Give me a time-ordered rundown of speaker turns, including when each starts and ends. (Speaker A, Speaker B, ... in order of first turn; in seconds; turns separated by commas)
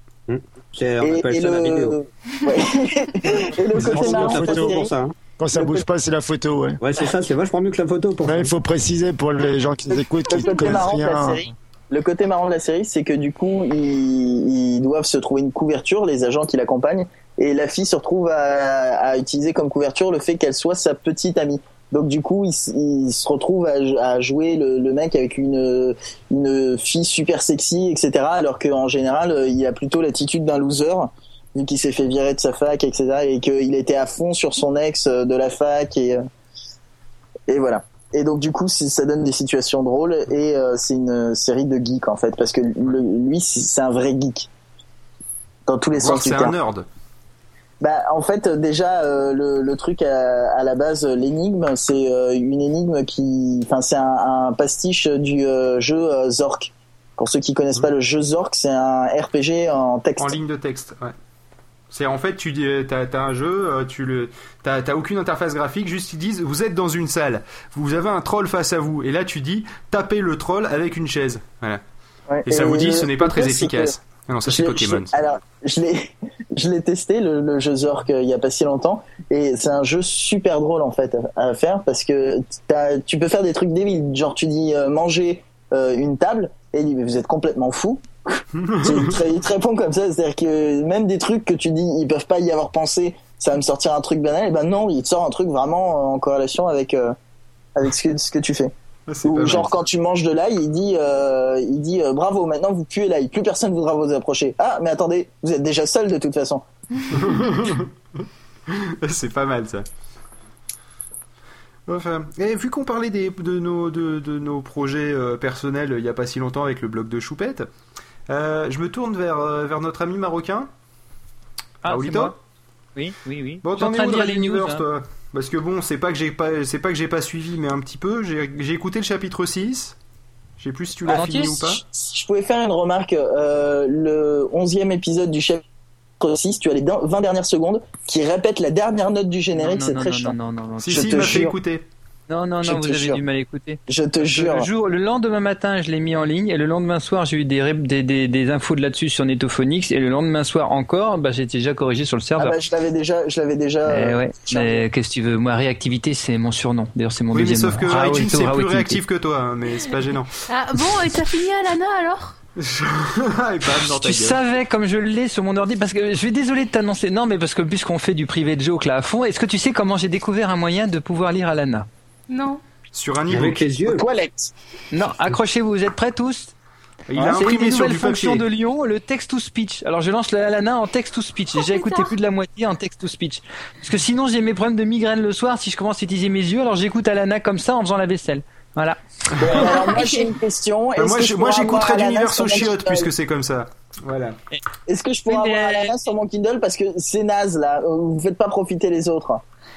Speaker A: 0.3-1.9, Speaker B: 1.0-4.9, Speaker C: 3.7-4.8, Speaker A: 3.7-5.1, Speaker C: 5.4-6.8, Speaker B: 5.5-5.8, Speaker A: 6.8-8.5, Speaker C: 8.2-11.4, Speaker B: 10.3-36.2, Speaker B: 37.5-44.5, Speaker B: 45.7-46.5, Speaker D: 45.9-46.9, Speaker B: 47.8-60.4, Speaker D: 60.2-61.1, Speaker D: 61.9-71.8, Speaker B: 72.3-73.9, Speaker D: 72.5-75.1, Speaker B: 74.5-97.1, Speaker D: 88.6-89.2, Speaker B: 97.8-98.7, Speaker D: 99.1-99.8, Speaker B: 99.2-106.6, Speaker D: 107.1-107.9, Speaker D: 108.7-109.8, Speaker D: 111.9-117.7, Speaker D: 118.3-120.7, Speaker E: 121.8-122.3, Speaker D: 121.8-122.3, Speaker E: 123.0-124.8, Speaker D: 123.6-129.9, Speaker D: 130.6-131.8, Speaker E: 131.1-131.7, Speaker B: 131.8-135.6, Speaker B: 136.2-140.3, Speaker E: 139.5-141.3, Speaker D: 140.8-141.8, Speaker B: 140.9-141.5, Speaker E: 142.3-152.5, Speaker B: 142.6-143.2, Speaker B: 143.9-144.7, Speaker B: 152.4-154.8, Speaker E: 153.9-159.0, Speaker D: 157.3-160.3, Speaker F: 160.5-162.4, Speaker D: 162.6-164.4, Speaker E: 163.7-171.9, Speaker F: 172.3-172.6, Speaker D: 172.9-173.6, Speaker A: 173.3-174.0, Speaker B: 173.8-174.5, Speaker E: 174.9-176.5, Speaker D: 177.1-178.4, Speaker E: 177.2-189.0, Speaker F: 181.6-182.1, Speaker B: 189.4-193.1, Speaker F: 189.6-190.3, Speaker D: 190.9-194.4, Speaker B: 194.8-199.4, Speaker E: 195.3-195.9